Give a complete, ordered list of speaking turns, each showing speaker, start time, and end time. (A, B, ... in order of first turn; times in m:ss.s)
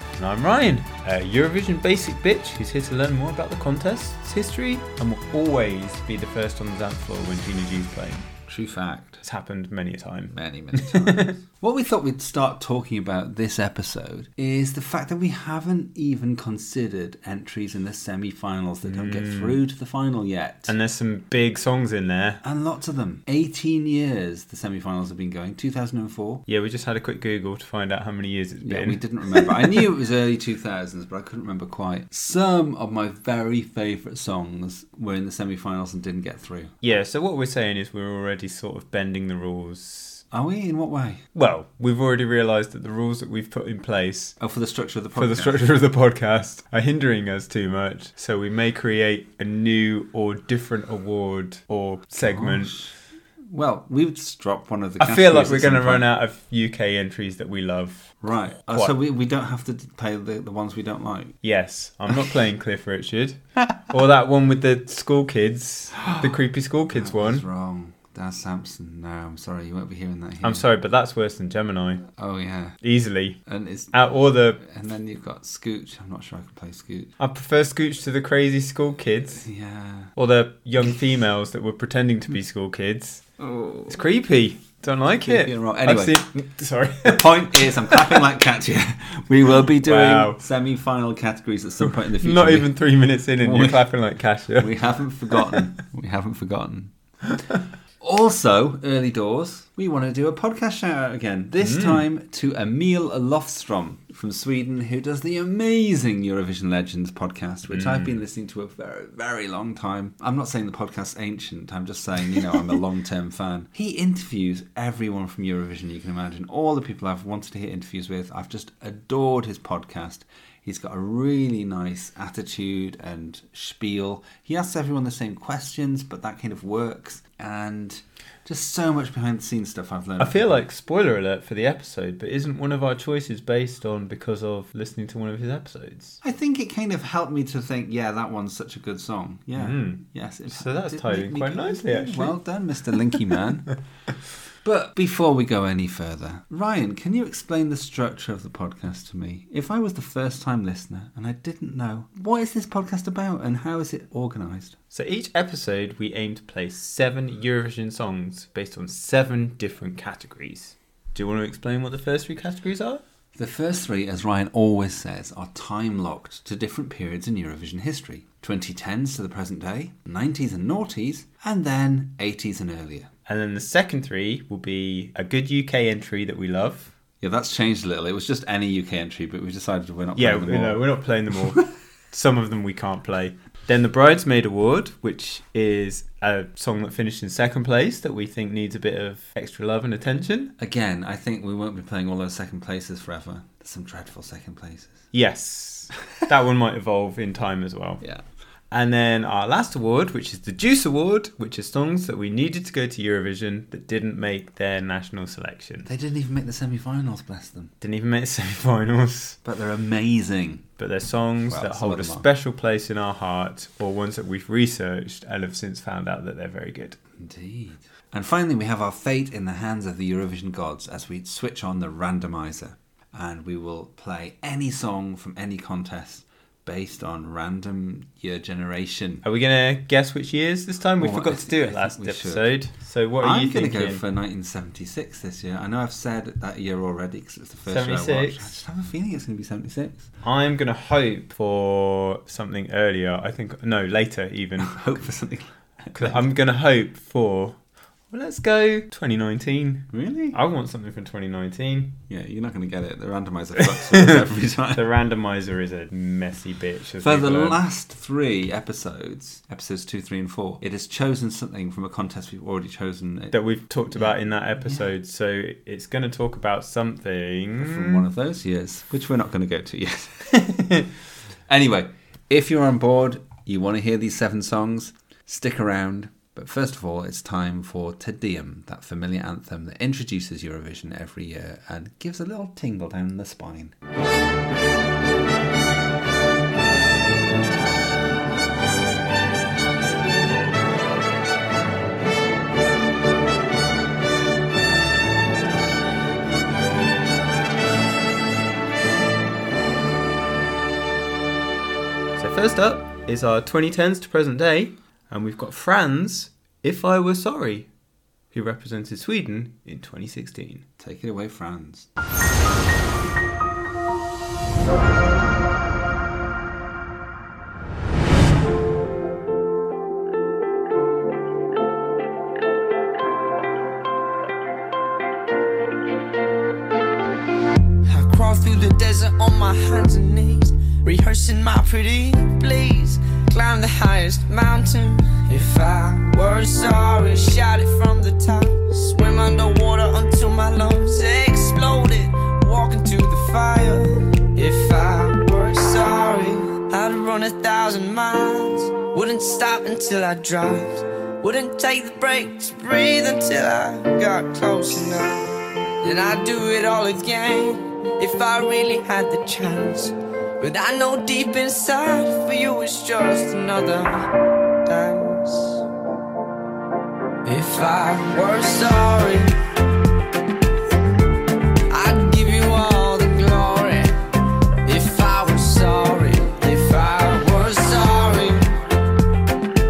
0:00.2-0:08.3 A
0:08.5-0:09.2 B
0:09.2-0:11.4 A
0:10.3-0:20.7 B
0:18.8-0:19.6 A
0:20.7-0:22.4 A
0:22.4-0:26.4 B
0:26.5-0:29.5 A
0:28.6-0:36.8 B
0:36.8-0:40.2 A
0:40.3-0:41.2 B
0:41.3-0:44.4 A
0:44.4-0:45.6 B
0:45.1-0:52.8 A
0:52.2-0:56.0 B
0:55.0-0:58.9 A
0:58.2-1:01.4 B
1:01.4-1:07.4 A
1:06.0-1:06.4 B
1:06.9-1:10.6 B
1:10.4-1:12.0 A
1:12.1-1:12.8 B
1:12.8-1:14.6 A
1:13.4-1:17.1 B
1:17.2-1:19.4 A
1:19.4-1:20.1 B
1:20.1-1:23.2 A
1:23.4-1:24.0 B
1:23.9-1:28.1 A
1:25.2-1:26.2 B
1:27.0-1:32.8 B
1:29.8-1:30.4 A
1:32.0-1:34.8 A
1:33.4-1:33.9 B
1:34.5-1:36.9 B
1:35.3-1:35.7 A
1:38.0-2:10.6 B
1:41.6-1:42.0 A
1:47.7-1:48.1 A
2:10.2-2:16.2 A
2:16.2-2:23.8 B
2:19.5-2:22.4 A
2:24.6-2:34.8 B
2:34.9-2:43.0 A
2:43.3-2:53.1 B
2:53.3-2:56.9 A
2:57.2-3:00.8 B
3:00.2-3:10.5 A
3:10.6-3:15.0 B
3:15.1-3:18.0 A
3:18.7-3:25.9 A
3:25.8-3:27.7 B
3:27.8-3:29.4 A
3:29.4-3:30.7 B
3:30.8-3:37.0 A
3:31.5-3:32.3 B
3:37.2-3:49.2 B
3:49.2-3:54.0 A
3:51.0-4:00.0 B
3:57.7-3:58.5 A
4:00.2-4:04.8 A
4:04.6-4:06.2 B
4:05.9-4:07.6 A
4:08.1-4:12.0 A
4:09.9-4:10.4 B
4:12.1-4:14.8 B
4:14.7-4:17.6 A
4:17.0-4:23.4 B
4:23.3-4:28.0 A
4:23.9-4:24.9 B
4:27.6-4:30.9 B
4:31.5-4:43.7 B
5:02.2-5:07.7 A
5:08.3-5:10.6 A
5:10.8-5:11.9 B
5:27.8-5:55.2 C
5:55.8-6:04.1 C
6:04.6-6:05.6 C
6:07.2-6:09.3 C
6:11.7-6:13.9 C
6:14.6-6:18.5 C